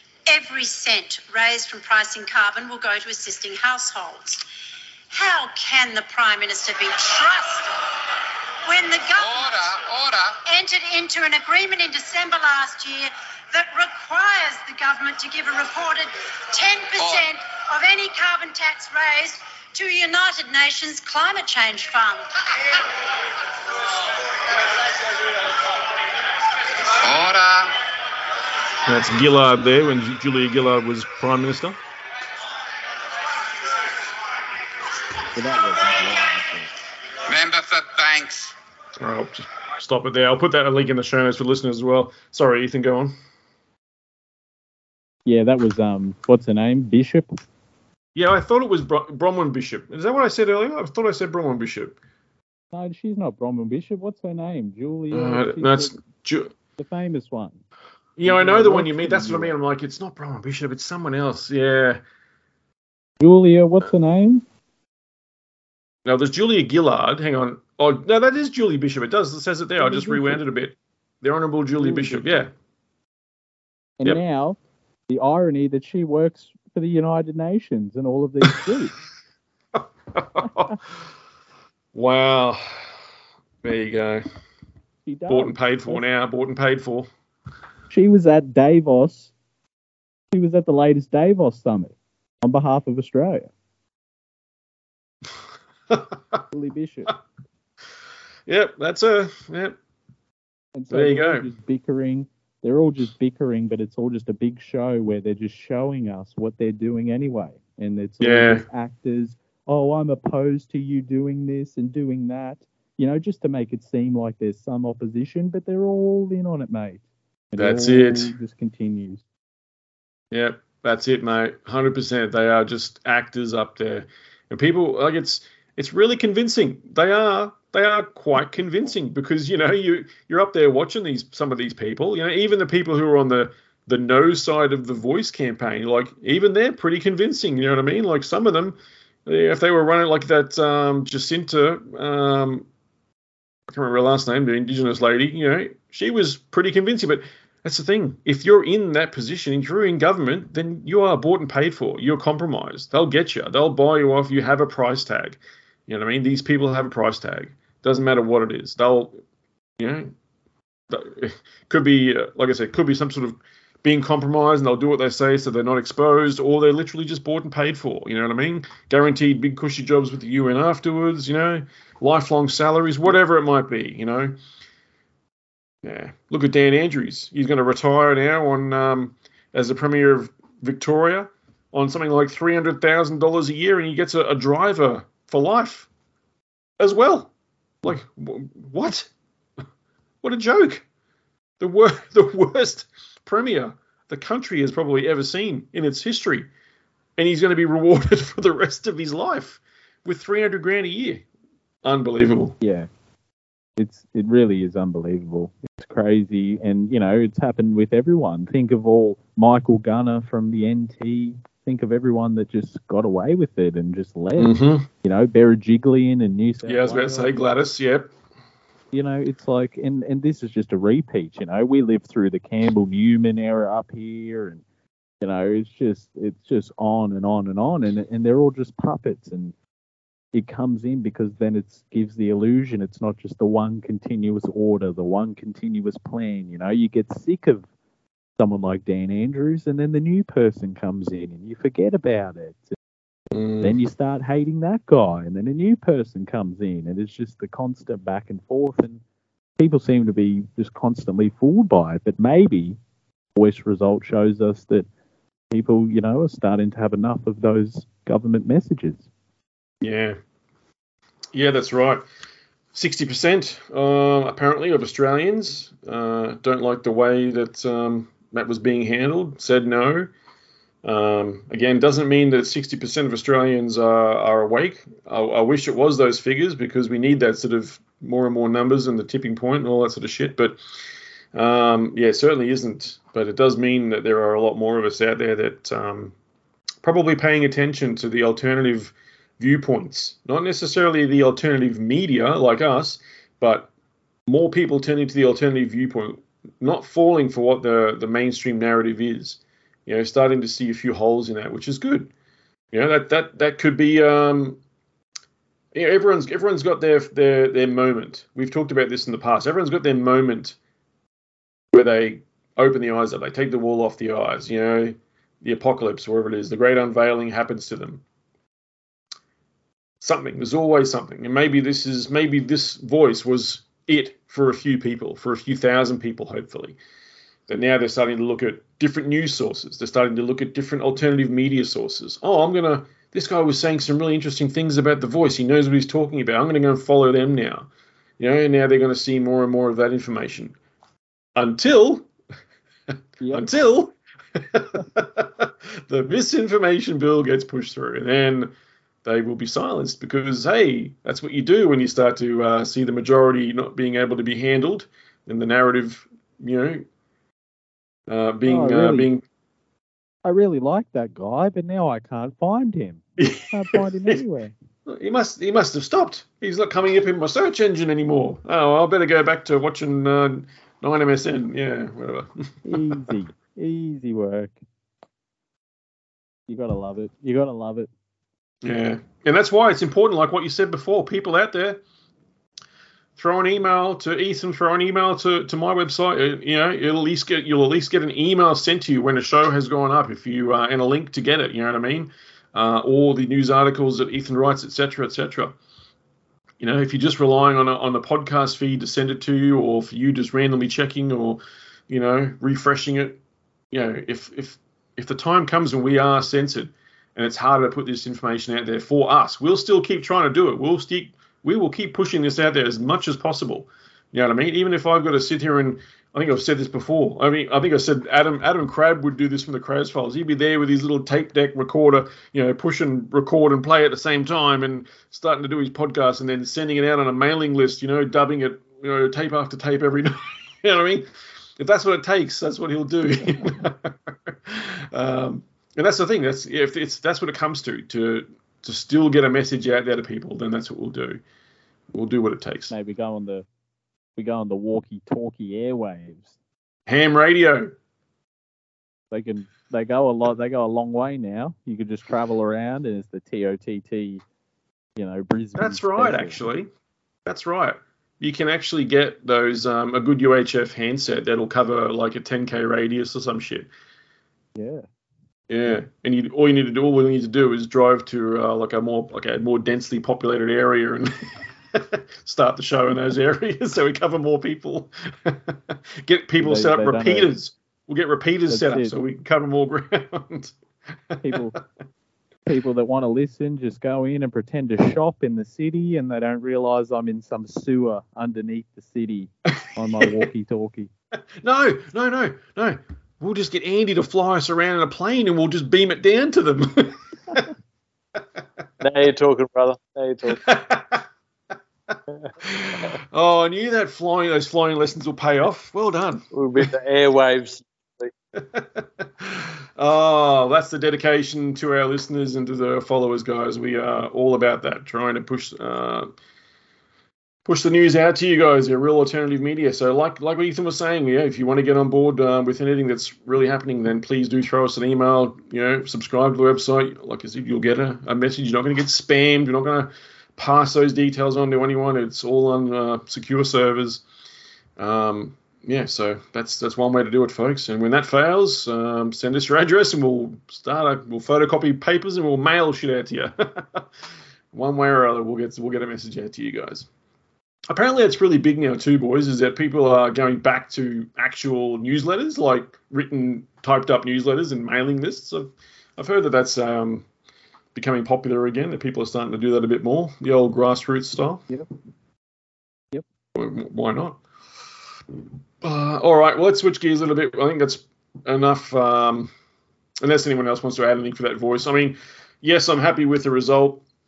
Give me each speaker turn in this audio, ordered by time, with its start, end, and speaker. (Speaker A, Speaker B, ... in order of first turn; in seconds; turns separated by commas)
Speaker A: 0.3-4.4, Speaker A: 5.1-7.7, Speaker A: 8.7-9.6, Speaker B: 9.2-10.4, Speaker A: 10.5-22.3, Speaker B: 27.0-27.7, Speaker C: 28.9-31.8, Speaker D: 35.3-36.7, Speaker B: 37.3-38.5, Speaker C: 39.0-43.1, Speaker D: 45.2-47.4, Speaker C: 48.1-52.0, Speaker D: 52.7-56.0, Speaker C: 55.1-56.5, Speaker D: 56.8-57.6, Speaker C: 58.2-62.0, Speaker D: 58.2-59.5, Speaker D: 63.2-64.4, Speaker C: 66.0-72.5, Speaker D: 69.8-70.4, Speaker D: 71.8-72.5, Speaker D: 74.0-74.6, Speaker D: 75.1-79.0, Speaker C: 79.7-80.8, Speaker C: 81.9-82.9, Speaker C: 83.6-84.2, Speaker D: 85.0-86.0, Speaker C: 85.3-87.1, Speaker D: 87.9-89.3, Speaker D: 90.3-93.5, Speaker C: 95.9-96.2, Speaker D: 96.5-97.2, Speaker C: 98.5-99.8, Speaker D: 100.7-119.2, Speaker C: 100.9-101.5, Speaker C: 108.2-108.6, Speaker C: 117.6-118.3, Speaker C: 120.3-142.7, Speaker C: 143.7-159.2, Speaker C: 159.8-160.1, Speaker C: 160.9-174.4, Speaker C: 175.8-185.9, Speaker C: 186.8-187.3, Speaker C: 187.8-189.1, Speaker C: 190.2-190.8, Speaker C: 191.6-196.5, Speaker C: 197.2-201.2, Speaker C: 201.8-202.6, Speaker D: 202.6-202.9, Speaker D: 203.8-217.3, Speaker C: 214.4-214.9, Speaker C: 216.6-218.1, Speaker D: 218.9-224.6, Speaker D: 225.2-229.5, Speaker D: 230.3-237.7, Speaker D: 238.4-242.7, Speaker C: 243.3-243.7, Speaker D: 243.6-249.0, Speaker D: 249.6-252.8, Speaker D: 253.3-254.9, Speaker D: 255.5-259.0, Speaker C: 259.8-260.2, Speaker C: 261.3-262.0, Speaker C: 262.7-270.1, Speaker C: 270.8-280.6, Speaker C: 281.3-286.1, Speaker C: 286.8-293.7, Speaker C: 294.3-302.1, Speaker C: 302.7-304.6, Speaker C: 305.7-310.6, Speaker C: 311.7-318.0, Speaker C: 320.0-326.8, Speaker C: 327.5-340.6, Speaker C: 341.3-342.1, Speaker D: 343.2-343.5, Speaker C: 343.3-348.5, Speaker C: 349.0-356.9, Speaker C: 358.1-359.2, Speaker D: 358.5-359.1, Speaker D: 360.2-364.5, Speaker C: 363.2-364.2, Speaker C: 364.9-373.0, Speaker D: 372.6-374.5, Speaker D: 376.5-377.9, Speaker C: 378.6-381.8, Speaker C: 383.1-395.6, Speaker C: 396.6-403.2, Speaker C: 403.7-441.2, Speaker C: 441.9-442.7, Speaker D: 442.7-443.4, Speaker D: 444.2-446.4, Speaker C: 446.9-447.7, Speaker D: 449.1-454.2, Speaker D: 455.0-456.4, Speaker C: 455.6-456.7, Speaker C: 457.2-463.7, Speaker D: 464.6-464.9, Speaker C: 465.5-480.5, Speaker D: 476.4-477.3, Speaker D: 478.5-478.9, Speaker C: 481.1-481.6, Speaker D: 481.2-481.6, Speaker D: 482.5-490.9, Speaker C: 490.0-490.2, Speaker C: 491.4-497.5, Speaker E: 498.8-500.4, Speaker C: 500.3-501.1, Speaker C: 501.9-506.7, Speaker E: 506.3-508.1, Speaker C: 508.3-516.1, Speaker C: 517.4-534.0, Speaker C: 534.8-543.9, Speaker C: 544.5-546.9, Speaker C: 547.7-557.0, Speaker C: 557.7-561.5, Speaker C: 563.3-564.2, Speaker C: 565.6-569.3, Speaker C: 570.0-573.8